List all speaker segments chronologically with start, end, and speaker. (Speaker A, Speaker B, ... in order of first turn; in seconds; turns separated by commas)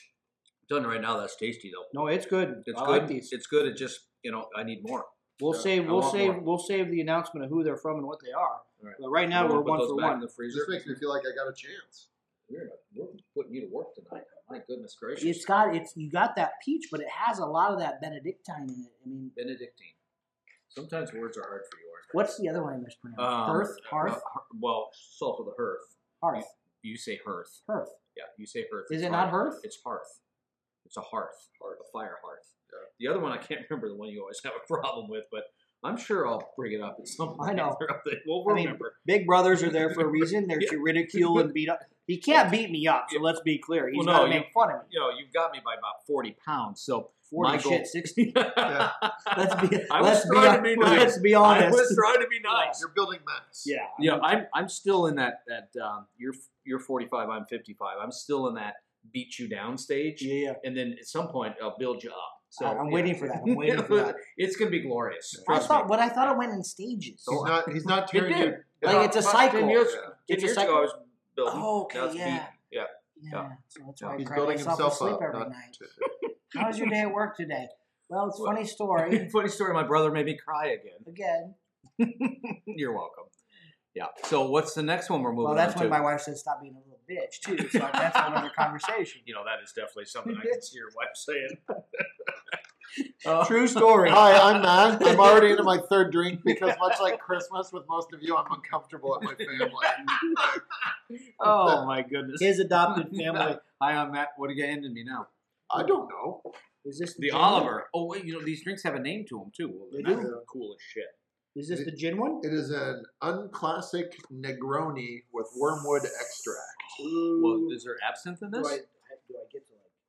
Speaker A: 0.7-2.1, Speaker B: 1.9-3.3, Speaker A: 2.7-6.4, Speaker B: 5.4-10.2, Speaker A: 8.8-11.0, Speaker C: 10.5-12.1, Speaker A: 12.5-15.5, Speaker B: 15.2-19.4, Speaker A: 19.4-20.0, Speaker A: 20.7-22.1, Speaker B: 22.1-24.2, Speaker A: 23.2-27.6, Speaker B: 26.2-26.5, Speaker B: 27.7-28.0, Speaker A: 28.1-30.2, Speaker B: 28.9-29.6, Speaker A: 30.9-39.0, Speaker C: 31.6-31.8, Speaker B: 37.4-37.8, Speaker B: 38.5-44.9, Speaker A: 39.7-41.5, Speaker A: 43.9-52.9, Speaker B: 47.3-48.3, Speaker C: 48.6-49.0, Speaker B: 49.3-52.8, Speaker C: 52.8-53.7, Speaker B: 53.6-54.3, Speaker A: 54.0-65.9, Speaker B: 60.2-60.6, Speaker B: 62.6-64.2, Speaker C: 65.3-65.8, Speaker B: 65.5-67.5, Speaker A: 67.3-73.5, Speaker C: 67.3-69.2, Speaker B: 68.8-70.9, Speaker C: 69.8-70.1, Speaker B: 71.5-72.5, Speaker B: 73.2-75.8, Speaker C: 74.2-76.0, Speaker A: 76.2-76.6, Speaker B: 76.5-79.3, Speaker A: 78.4-81.1, Speaker B: 81.1-81.6, Speaker A: 82.0-83.3, Speaker A: 83.9-86.0, Speaker B: 85.4-89.2, Speaker A: 87.5-88.6, Speaker A: 89.2-92.5, Speaker A: 93.2-95.6, Speaker B: 93.3-94.4, Speaker C: 94.0-100.6, Speaker A: 96.5-97.2, Speaker A: 99.4-100.6, Speaker A: 101.4-105.3, Speaker B: 102.4-103.6, Speaker C: 105.7-106.5, Speaker B: 106.8-107.7, Speaker A: 107.2-111.2, Speaker B: 109.9-110.3, Speaker C: 110.1-110.4, Speaker B: 111.5-112.5, Speaker C: 111.7-117.0, Speaker B: 117.0-117.8, Speaker A: 117.4-118.8, Speaker B: 118.5-119.9